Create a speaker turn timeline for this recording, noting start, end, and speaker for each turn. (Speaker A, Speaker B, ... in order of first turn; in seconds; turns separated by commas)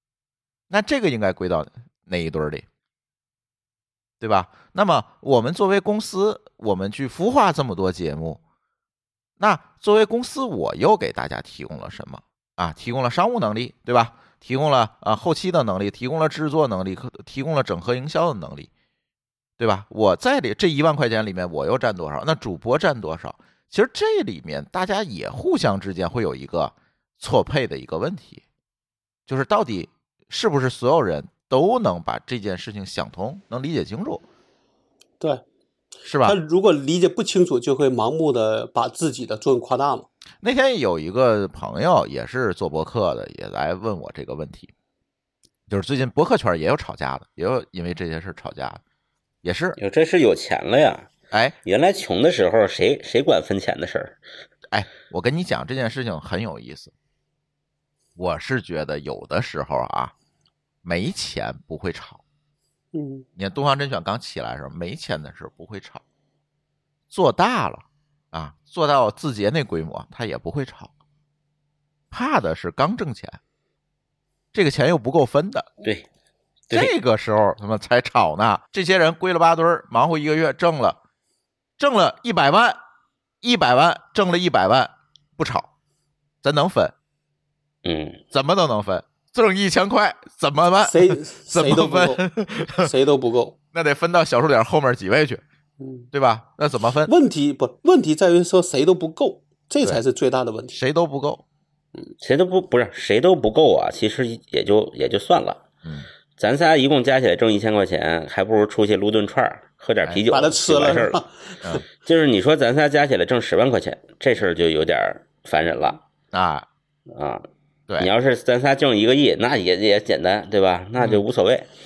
Speaker A: 0.7-2.7, Speaker A: 4.2-8.4, Speaker A: 9.4-18.7, Speaker A: 19.6-28.4, Speaker A: 29.3-34.2, Speaker A: 36.0-36.4, Speaker B: 36.2-40.1, Speaker A: 40.4-44.7, Speaker A: 45.7-48.8, Speaker A: 49.4-49.8, Speaker C: 49.8-51.1, Speaker A: 51.3-51.6, Speaker C: 51.6-54.2, Speaker A: 54.7-56.9, Speaker A: 58.2-60.1, Speaker A: 60.8-62.2, Speaker B: 62.9-63.3, Speaker A: 63.4-66.0, Speaker A: 67.1-70.9, Speaker A: 72.1-73.4, Speaker A: 74.5-75.7, Speaker A: 76.7-81.0, Speaker A: 81.8-82.8, Speaker A: 83.4-85.7, Speaker A: 86.4-86.9, Speaker C: 87.8-88.2, Speaker A: 88.3-92.9, Speaker B: 90.8-92.2, Speaker B: 92.8-93.5, Speaker A: 93.7-95.4, Speaker B: 95.8-96.1, Speaker A: 96.1-97.1, Speaker B: 97.1-100.8, Speaker A: 100.7-101.4, Speaker C: 102.2-105.6, Speaker C: 106.4-111.2, Speaker B: 110.3-111.8, Speaker C: 111.9-116.0, Speaker A: 116.3-116.7, Speaker C: 117.1-117.5, Speaker C: 118.0-121.7